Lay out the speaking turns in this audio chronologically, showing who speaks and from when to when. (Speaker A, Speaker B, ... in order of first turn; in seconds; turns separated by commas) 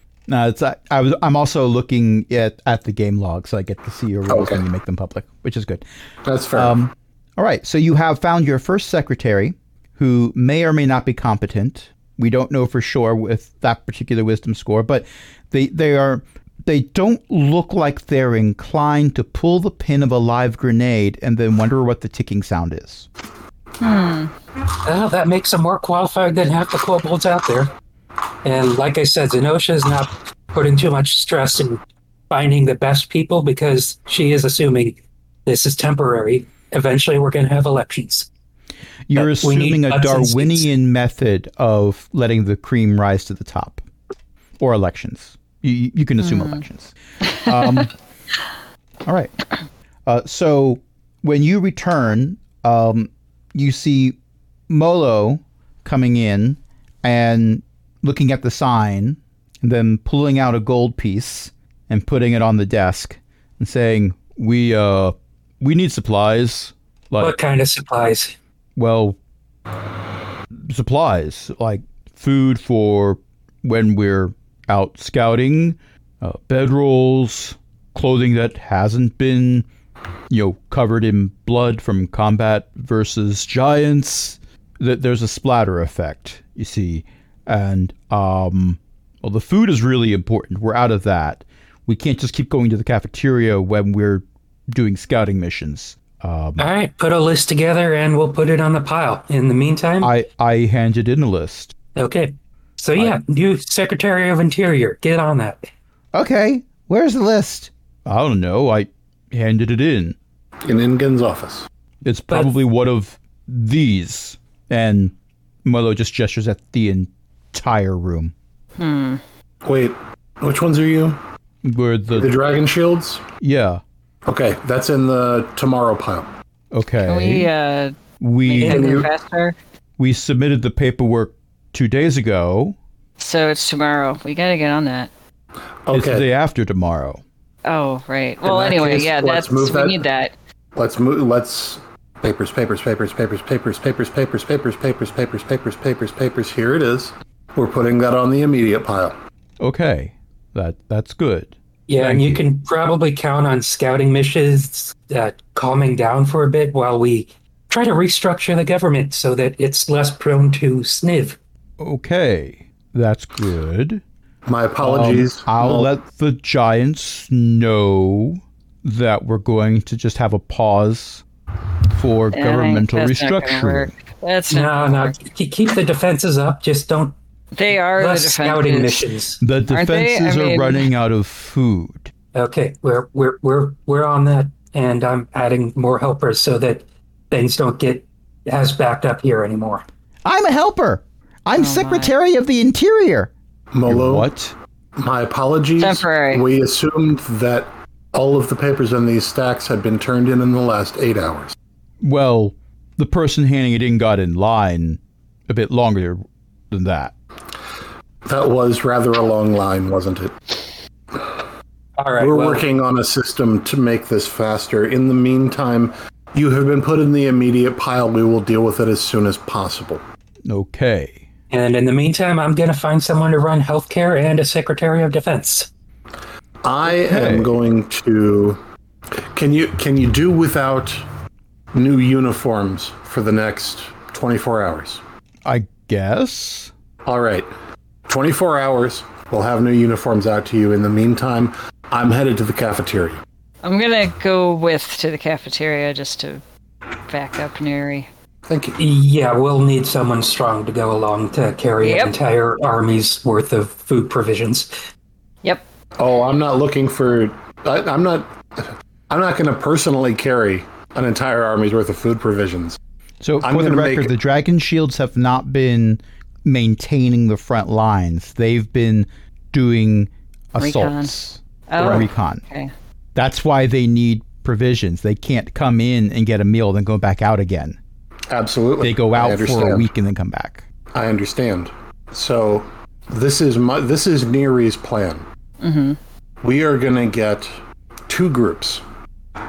Speaker A: 0.3-5.8, Speaker B: 4.3-4.6, Speaker B: 6.2-6.7, Speaker A: 6.5-23.1, Speaker C: 23.8-24.3, Speaker D: 24.8-27.7, Speaker D: 28.4-38.3, Speaker A: 39.1-43.8, Speaker D: 39.1-40.7, Speaker A: 44.6-47.9, Speaker C: 46.2-46.6, Speaker A: 49.0-49.3, Speaker A: 50.0-54.2, Speaker A: 54.7-67.3, Speaker D: 67.2-68.3, Speaker A: 68.8-69.2, Speaker A: 70.5-79.7, Speaker A: 80.3-96.7, Speaker D: 96.6-100.1, Speaker A: 100.0-101.7, Speaker D: 101.9-105.6, Speaker A: 106.1-110.2, Speaker B: 110.6-111.7, Speaker A: 112.0-118.3, Speaker C: 118.8-119.2, Speaker B: 119.6-121.2, Speaker A: 121.6-122.3, Speaker B: 122.1-123.2, Speaker A: 123.4-123.8, Speaker B: 124.2-126.3, Speaker A: 126.7-127.5, Speaker C: 127.0-129.6, Speaker A: 128.2-128.9, Speaker D: 128.6-129.1, Speaker B: 128.7-129.1, Speaker A: 130.0-132.8, Speaker C: 133.2-135.1, Speaker B: 135.8-136.2, Speaker A: 135.9-137.2, Speaker C: 137.6-140.3, Speaker B: 138.4-140.0, Speaker B: 140.7-149.2, Speaker A: 149.6-152.4, Speaker D: 151.9-161.4, Speaker A: 161.8-164.0, Speaker B: 164.4-165.9, Speaker A: 164.8-171.2, Speaker A: 171.9-173.9, Speaker C: 172.3-175.2, Speaker D: 174.5-177.1, Speaker C: 177.5-179.1, Speaker D: 177.8-179.4, Speaker A: 179.4-182.1, Speaker C: 179.7-180.9, Speaker D: 182.3-189.8, Speaker A: 190.2-193.3, Speaker C: 191.6-192.1, Speaker B: 193.7-194.3, Speaker A: 193.8-194.5, Speaker B: 195.0-201.5, Speaker C: 195.8-196.4, Speaker A: 202.0-207.1, Speaker B: 208.2-210.6, Speaker B: 211.1-211.4, Speaker D: 212.0-212.7, Speaker B: 212.2-220.0, Speaker A: 220.4-221.3, Speaker D: 221.5-225.7, Speaker B: 226.6-228.6, Speaker A: 226.8-227.5, Speaker B: 229.3-231.0, Speaker B: 231.7-235.0, Speaker A: 235.4-236.7, Speaker B: 237.0-237.5, Speaker B: 238.1-243.2, Speaker C: 243.6-246.4, Speaker C: 247.1-248.1, Speaker B: 248.5-248.8, Speaker D: 248.8-254.7, Speaker C: 251.8-252.2, Speaker B: 256.0-262.8, Speaker A: 263.2-272.4, Speaker B: 263.4-264.1, Speaker C: 270.6-271.1, Speaker C: 271.7-272.7, Speaker B: 271.8-272.0, Speaker A: 273.1-277.8, Speaker B: 278.3-279.9, Speaker A: 278.8-280.6, Speaker B: 280.9-285.2, Speaker C: 285.6-286.0, Speaker B: 286.4-287.6, Speaker B: 288.1-288.8